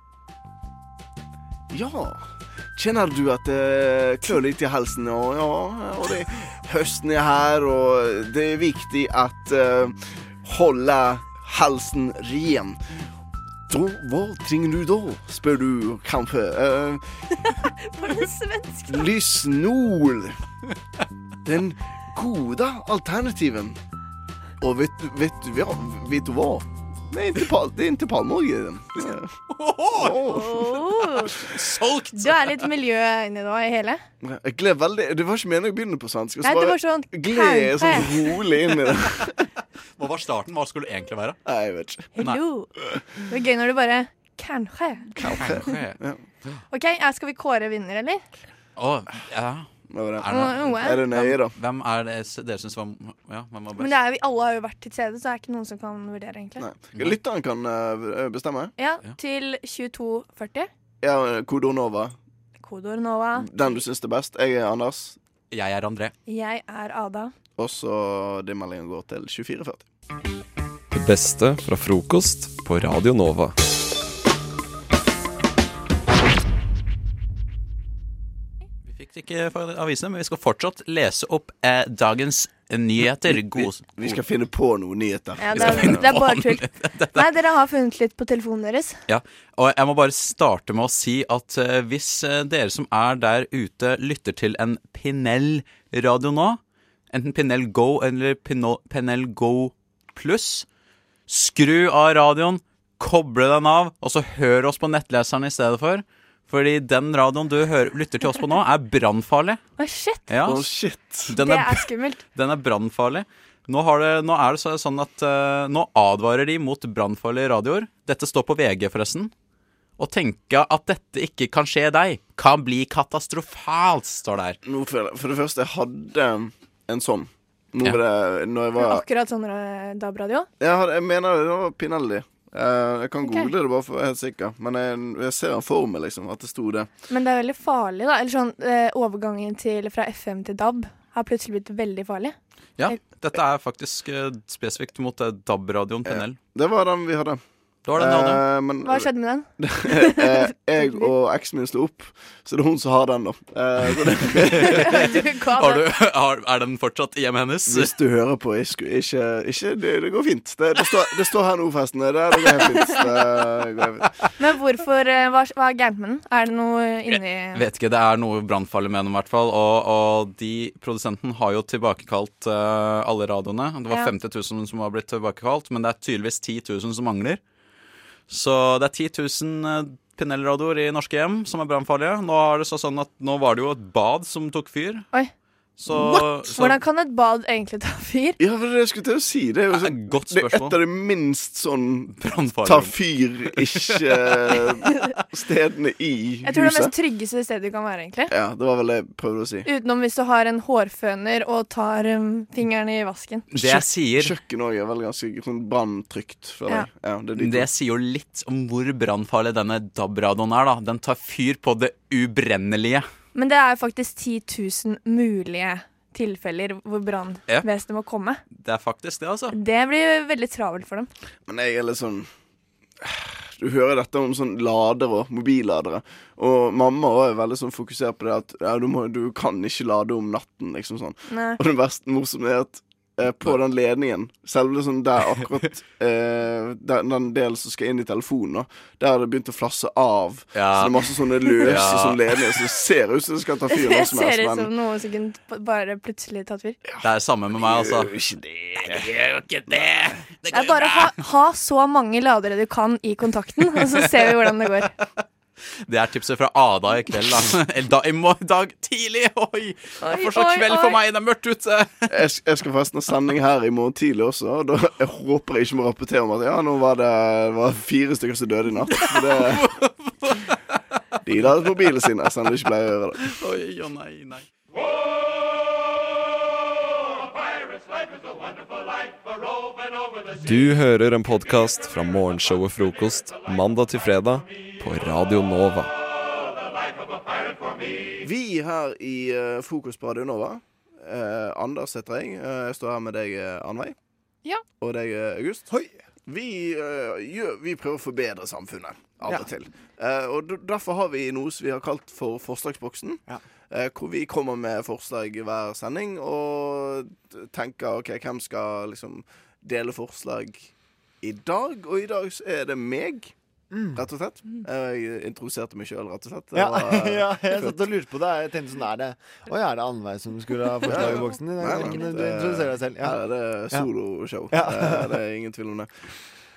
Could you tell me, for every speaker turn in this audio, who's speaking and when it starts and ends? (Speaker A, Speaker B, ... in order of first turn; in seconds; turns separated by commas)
Speaker A: 1.7-12.8, Speaker A: 13.7-17.0, Speaker B: 17.4-19.1, Speaker A: 18.9-20.4, Speaker A: 21.4-23.8, Speaker A: 24.6-29.3, Speaker C: 29.5-32.7, Speaker A: 30.0-30.7, Speaker B: 30.2-31.4, Speaker B: 32.1-34.0, Speaker A: 34.2-39.4, Speaker B: 36.4-38.3, Speaker C: 40.0-41.4, Speaker A: 41.5-42.1, Speaker B: 42.2-42.7, Speaker B: 43.3-45.1, Speaker A: 45.2-46.2, Speaker C: 45.2-46.5, Speaker B: 46.7-48.2, Speaker C: 48.8-49.7, Speaker A: 49.9-51.5, Speaker C: 50.2-54.0, Speaker B: 50.3-51.0, Speaker B: 53.8-56.6, Speaker A: 56.6-58.7, Speaker C: 56.9-57.2, Speaker B: 58.8-60.7, Speaker A: 61.0-62.2, Speaker B: 62.6-63.5, Speaker A: 63.4-65.2, Speaker C: 65.5-66.1, Speaker B: 66.3-67.3, Speaker A: 67.6-69.9, Speaker D: 70.9-73.5, Speaker C: 78.9-84.2, Speaker A: 83.3-86.2, Speaker B: 85.4-89.0, Speaker C: 85.5-87.3, Speaker C: 89.1-96.6, Speaker C: 97.1-100.7, Speaker C: 101.3-109.6, Speaker B: 109.8-110.2, Speaker C: 110.3-110.7, Speaker A: 110.5-111.3, Speaker C: 111.3-119.3, Speaker B: 111.4-112.2, Speaker C: 120.0-124.6, Speaker A: 124.7-129.0, Speaker B: 128.8-130.5, Speaker A: 130.6-136.9, Speaker B: 133.2-133.5, Speaker B: 137.1-142.4, Speaker C: 142.8-146.4, Speaker A: 146.1-147.4, Speaker C: 147.9-148.5, Speaker A: 148.0-155.2, Speaker B: 148.8-151.1, Speaker C: 154.4-157.9, Speaker B: 154.6-155.9, Speaker A: 157.7-164.1, Speaker B: 164.4-167.6, Speaker C: 167.1-177.4, Speaker C: 178.3-185.1, Speaker C: 185.8-186.8, Speaker B: 185.9-188.4, Speaker A: 188.4-196.9, Speaker C: 189.7-190.8, Speaker C: 192.1-193.0, Speaker C: 193.6-194.7, Speaker B: 196.4-198.3, Speaker A: 198.3-199.7, Speaker B: 199.7-203.5, Speaker C: 203.5-204.4, Speaker A: 203.6-207.7, Speaker C: 207.3-213.1, Speaker B: 213.3-218.4, Speaker C: 218.5-219.6, Speaker B: 219.5-221.1, Speaker A: 221.5-222.3, Speaker A: 223.0-244.7, Speaker B: 231.3-231.6, Speaker C: 240.5-242.4, Speaker B: 243.7-246.8, Speaker C: 247.0-248.2, Speaker A: 247.6-249.1, Speaker C: 248.8-251.2, Speaker B: 250.5-254.9, Speaker C: 253.8-254.3, Speaker C: 255.9-262.1, Speaker B: 260.0-261.0, Speaker A: 262.1-269.7, Speaker C: 268.9-270.6, Speaker A: 271.3-273.3, Speaker C: 273.2-274.5, Speaker D: 280.4-285.9, Speaker A: 288.2-293.9, Speaker A: 294.8-295.7, Speaker A: 296.2-310.7, Speaker A: 311.2-313.3, Speaker E: 313.7-314.1, Speaker A: 314.0-317.8, Speaker E: 316.5-323.2, Speaker A: 320.9-326.1, Speaker E: 324.5-325.2